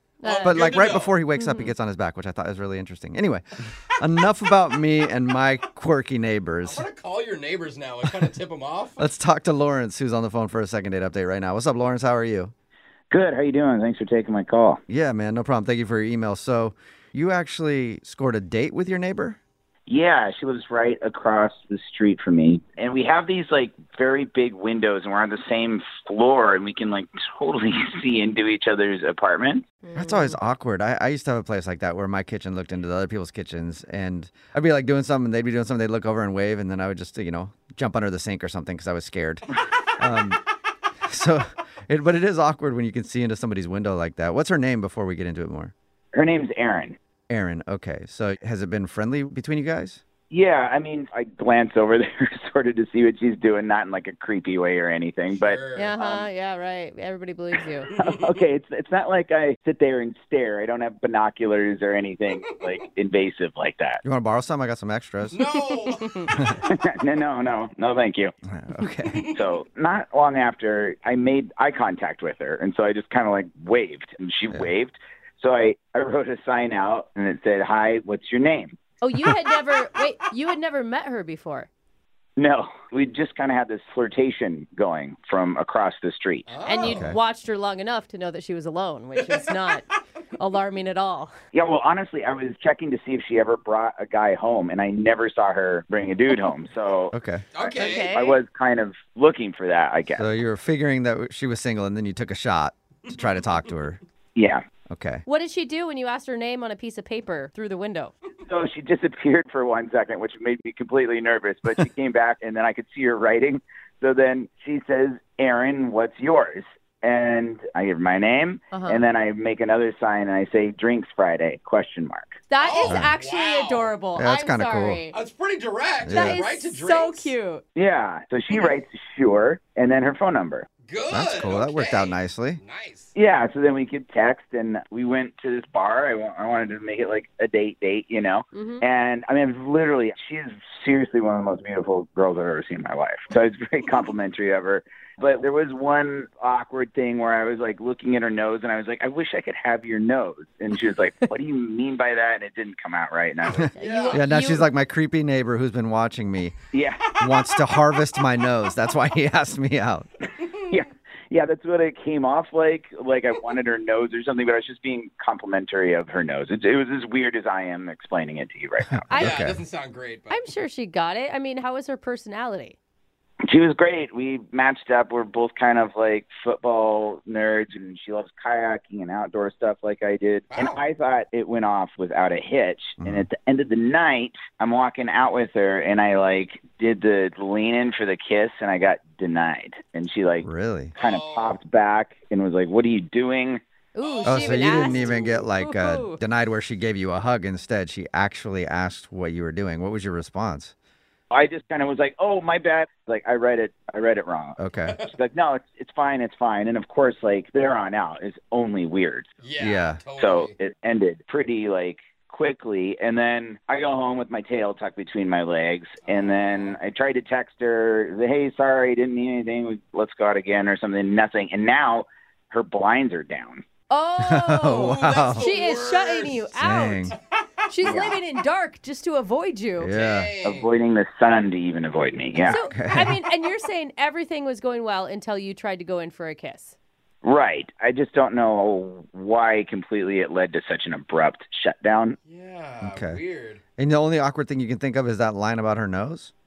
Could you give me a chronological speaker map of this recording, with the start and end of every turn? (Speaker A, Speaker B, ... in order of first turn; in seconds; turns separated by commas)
Speaker A: 0.2-0.7, Speaker B: 0.2-1.1, Speaker C: 0.4-6.8, Speaker A: 1.3-1.7, Speaker B: 6.6-9.0, Speaker C: 8.0-8.3, Speaker C: 9.0-12.5, Speaker D: 13.1-14.8, Speaker C: 14.9-19.4, Speaker D: 19.9-29.6, Speaker A: 29.8-30.4, Speaker C: 29.9-40.4, Speaker C: 41.1-45.7, Speaker D: 46.1-47.0, Speaker C: 47.3-50.0, Speaker D: 50.3-56.3, Speaker B: 55.3-55.9, Speaker A: 55.7-57.9, Speaker B: 57.9-58.3, Speaker D: 58.0-64.0, Speaker C: 64.0-65.4, Speaker B: 65.3-66.6, Speaker D: 66.6-68.3, Speaker C: 68.5-69.2, Speaker B: 69.1-69.4, Speaker D: 69.3-78.8, Speaker A: 79.0-81.7, Speaker D: 82.4-86.5, Speaker B: 86.5-87.1, Speaker A: 86.6-91.3, Speaker C: 86.8-87.2, Speaker D: 91.5-100.3, Speaker C: 97.1-97.4, Speaker B: 97.5-98.1, Speaker A: 97.8-98.4, Speaker C: 100.2-104.0, Speaker D: 104.3-104.6, Speaker C: 104.9-105.2, Speaker A: 105.2-108.1, Speaker D: 108.4-122.4, Speaker A: 118.7-119.0, Speaker A: 122.5-125.2, Speaker B: 122.6-123.9, Speaker C: 124.2-125.0, Speaker B: 125.1-127.3, Speaker C: 126.0-126.4, Speaker A: 126.1-127.6, Speaker D: 127.8-130.7, Speaker B: 130.8-133.1, Speaker C: 131.1-132.6, Speaker D: 133.1-153.8, Speaker A: 138.5-138.8, Speaker C: 153.6-156.5, Speaker A: 153.8-154.7, Speaker B: 153.8-154.2, Speaker D: 156.7-157.0, Speaker C: 157.2-160.1, Speaker D: 160.7-169.2, Speaker C: 168.9-169.6, Speaker A: 169.1-169.4, Speaker B: 169.2-170.4, Speaker A: 170.3-172.8, Speaker D: 173.4-193.6, Speaker B: 180.5-180.8, Speaker C: 183.0-183.3, Speaker C: 190.4-190.9, Speaker B: 190.9-191.6, Speaker A: 193.9-196.2, Speaker B: 194.0-195.3, Speaker C: 194.2-200.7, Speaker D: 201.3-209.3, Speaker C: 204.6-205.0, Speaker B: 209.4-210.6, Speaker C: 209.6-210.0, Speaker D: 210.1-223.6, Speaker B: 216.0-216.8, Speaker A: 223.9-227.1, Speaker C: 224.2-225.5, Speaker B: 224.8-226.5, Speaker C: 226.6-227.2, Speaker B: 227.1-227.5, Speaker A: 227.7-229.9, Speaker D: 227.8-228.2, Speaker C: 229.8-230.3, Speaker B: 229.9-230.8, Speaker D: 230.4-232.6, Speaker A: 232.4-236.8, Speaker C: 232.7-233.2, Speaker D: 237.2-242.2, Speaker B: 242.2-243.6, Speaker C: 242.8-243.2, Speaker C: 243.8-246.3